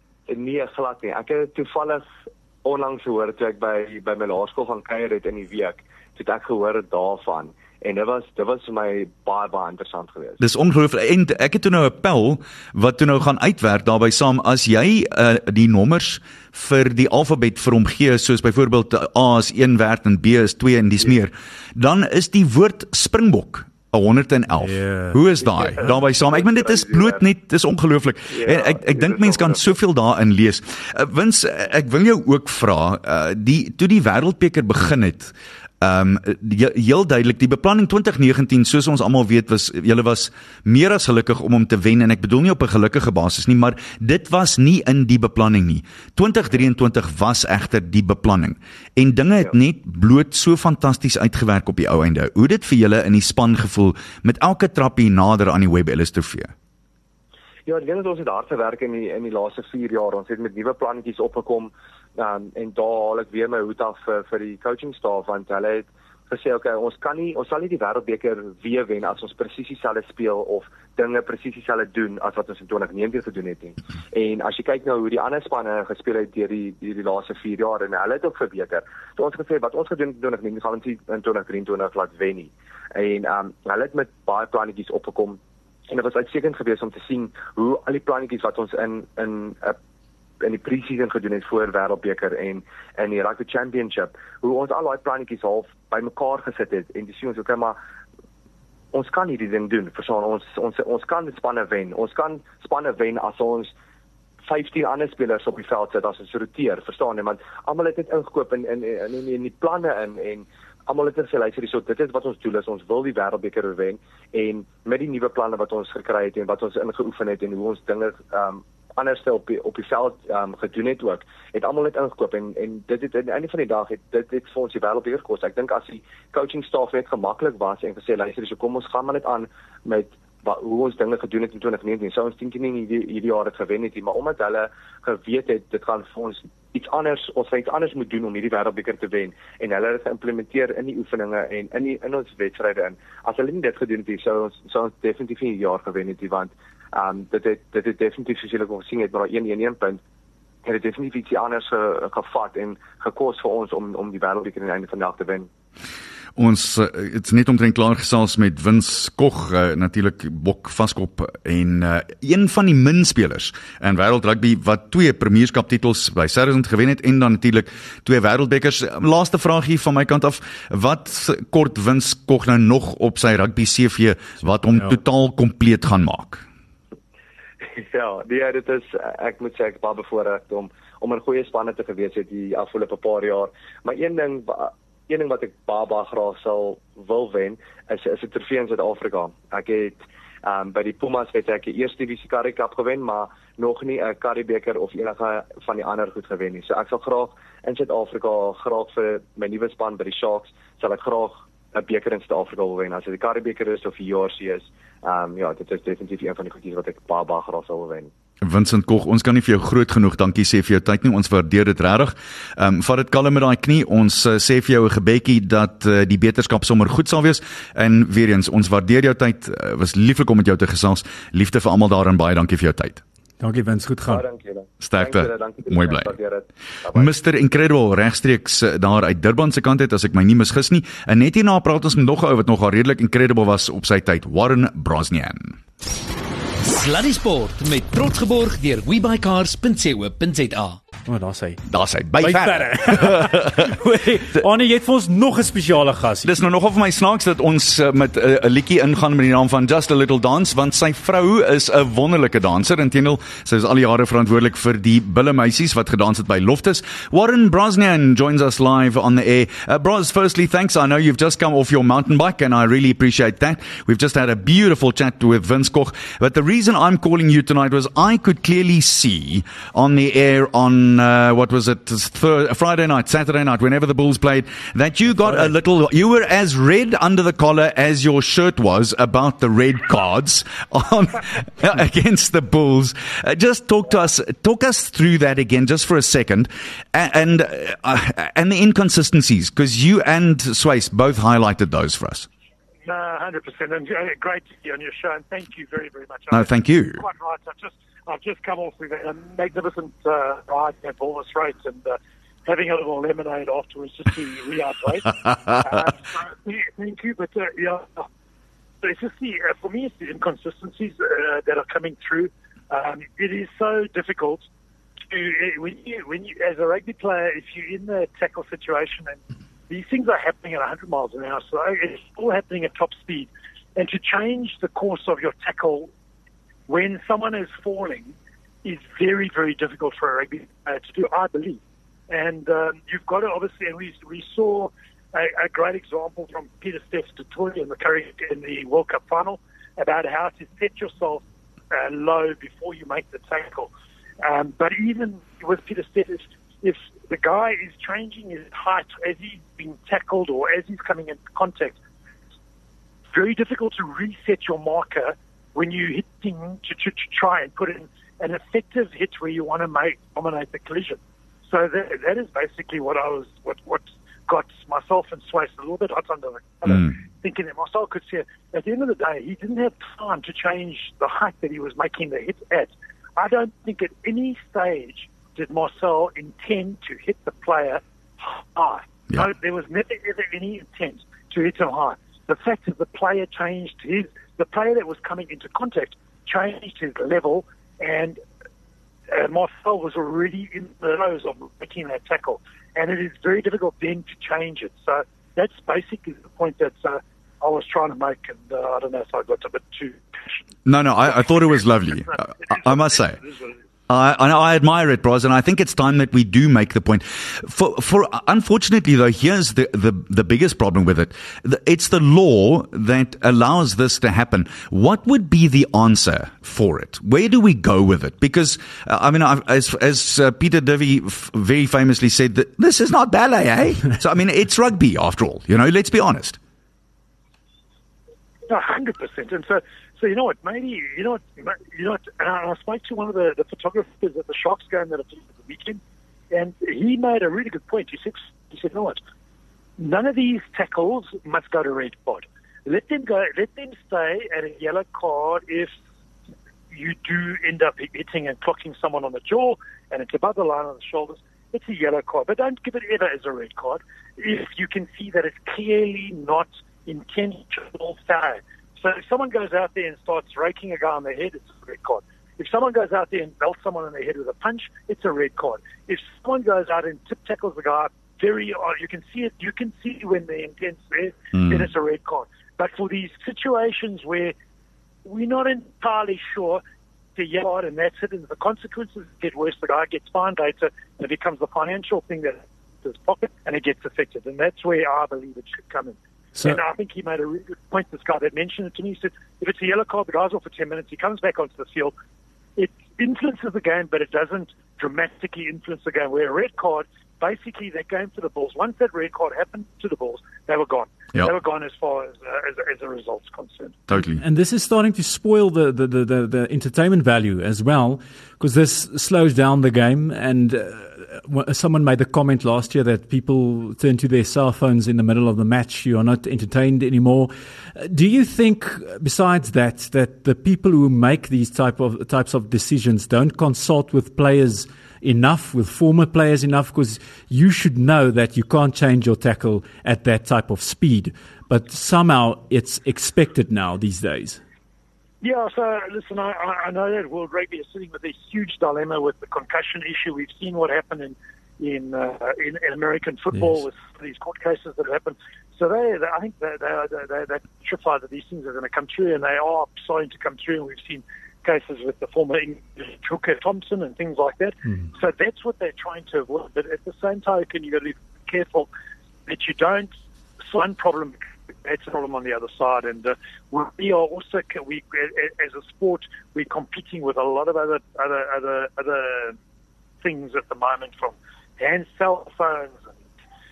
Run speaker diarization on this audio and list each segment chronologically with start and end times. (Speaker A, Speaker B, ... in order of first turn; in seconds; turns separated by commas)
Speaker A: 0.3-2.0, Speaker A: 2.6-10.4, Speaker B: 10.4-56.5, Speaker C: 24.6-25.2, Speaker A: 25.4-27.2, Speaker A: 28.3-29.8, Speaker A: 57.6-89.8, Speaker A: 90.4-97.8, Speaker A: 98.9-103.7, Speaker A: 104.5-150.0, Speaker A: 150.6-155.5, Speaker B: 156.3-176.4, Speaker A: 177.6-208.1, Speaker B: 208.4-223.0, Speaker C: 223.4-224.2, Speaker A: 224.1-227.1, Speaker B: 224.8-226.1, Speaker B: 226.9-235.6, Speaker D: 236.6-240.8, Speaker C: 241.1-241.6, Speaker B: 241.7-243.6, Speaker C: 242.2-246.3, Speaker B: 246.2-292.3, Speaker E: 292.8-308.1, Speaker B: 296.3-297.0, Speaker E: 308.8-314.4, Speaker E: 315.1-325.9, Speaker E: 326.7-343.7, Speaker E: 344.2-351.8, Speaker E: 353.1-388.2, Speaker E: 389.1-400.4, Speaker B: 400.6-403.2, Speaker E: 401.0-403.6, Speaker B: 403.9-426.4, Speaker E: 428.5-435.8, Speaker E: 436.3-439.0, Speaker E: 439.8-445.7, Speaker E: 446.7-474.3, Speaker E: 475.0-476.6, Speaker E: 477.1-491.9, Speaker E: 492.6-503.8, Speaker B: 503.9-504.2, Speaker C: 504.0-534.4, Speaker E: 535.2-558.7, Speaker E: 559.2-559.9, Speaker E: 560.4-569.4, Speaker E: 570.0-572.9